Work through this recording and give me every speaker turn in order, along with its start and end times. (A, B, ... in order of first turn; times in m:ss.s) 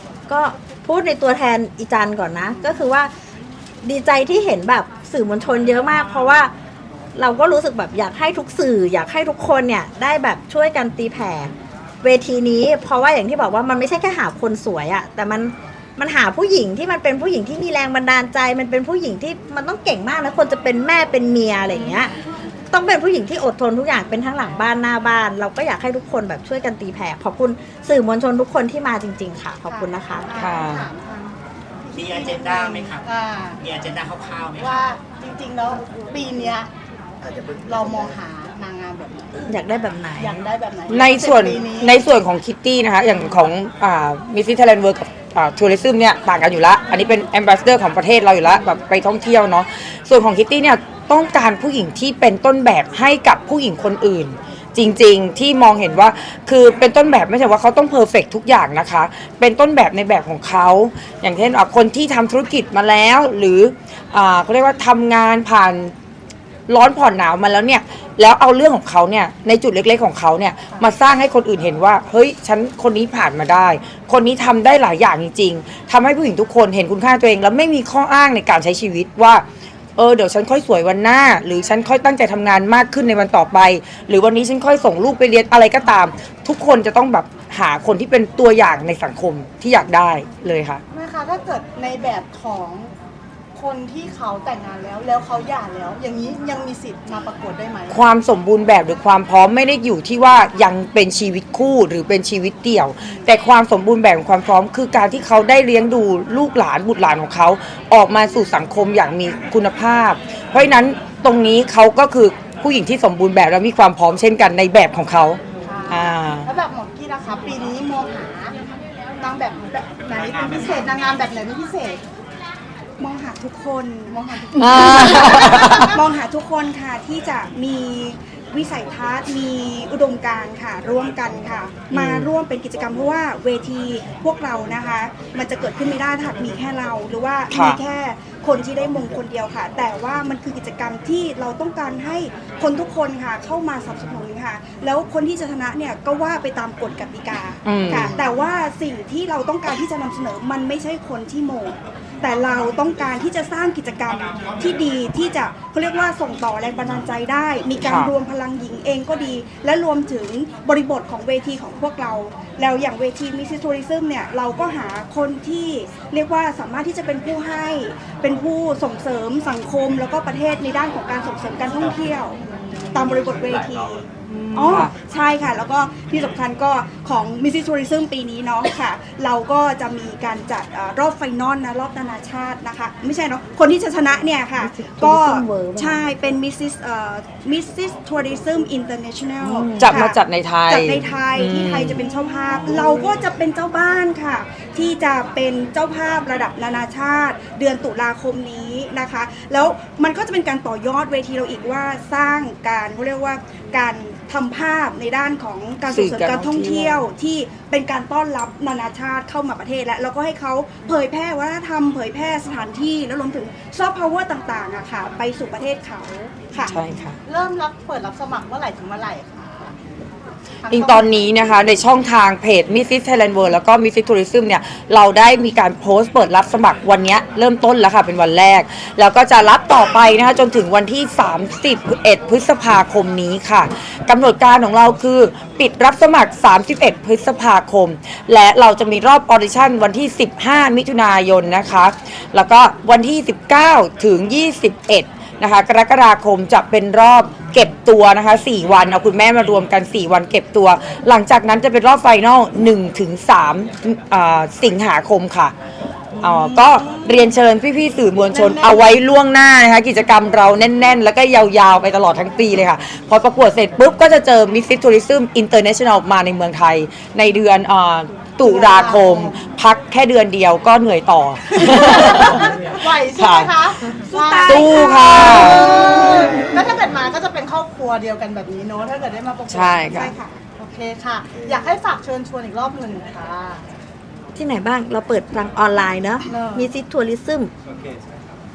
0:00.3-0:03.1 A
0:03.8-0:06.5 A
0:07.1-0:11.5 A
0:12.0-0:22.1 A
0:21.7-0:22.0 B
0:22.7-0:30.3 A
0:29.6-0:33.6 B
0:30.4-0:30.9 C
0:31.9-0:33.1 D
0:33.6-0:34.8 D
0:34.6-0:36.7 B
0:37.5-0:39.6 B
0:39.5-0:40.4 A
0:40.1-0:42.0 B
0:40.9-1:05.9 C
1:06.7-1:19.4 C
1:20.0-1:30.8 C
1:30.9-1:32.9 B
1:33.5-1:38.0 B
1:37.9-1:56.5 C
1:55.6-1:58.5 B
1:59.2-2:02.0 B
2:03.0-2:04.2 E
2:04.1-2:06.0 B
2:04.5-2:06.0 C
2:04.8-2:52.4 E
2:11.9-2:12.3 C
2:17.5-2:17.8 C
2:27.6-2:28.1 C
2:37.8-2:38.1 C
2:52.9-3:36.8 E
2:54.2-2:54.9 B
2:54.7-2:54.9 C
3:04.6-3:06.0 A
3:09.5-3:09.7 A
3:09.8-3:12.0 C
3:11.9-3:12.6 B
3:25.9-3:27.0 C
3:36.6-3:37.2 C
3:37.2-3:39.7 B
3:40.6-3:41.2 B
3:40.7-4:15.5 C
4:16.1-4:17.3 B
4:16.2-4:33.6 C
4:18.2-4:18.9 B
4:28.4-4:29.4 B
4:31.5-4:43.6 B
4:34.1-4:35.6 E
4:34.1-4:34.8 A
4:34.4-4:35.8 C
4:39.5-4:40.1 C
4:44.4-4:47.5 A
4:46.3-4:46.7 B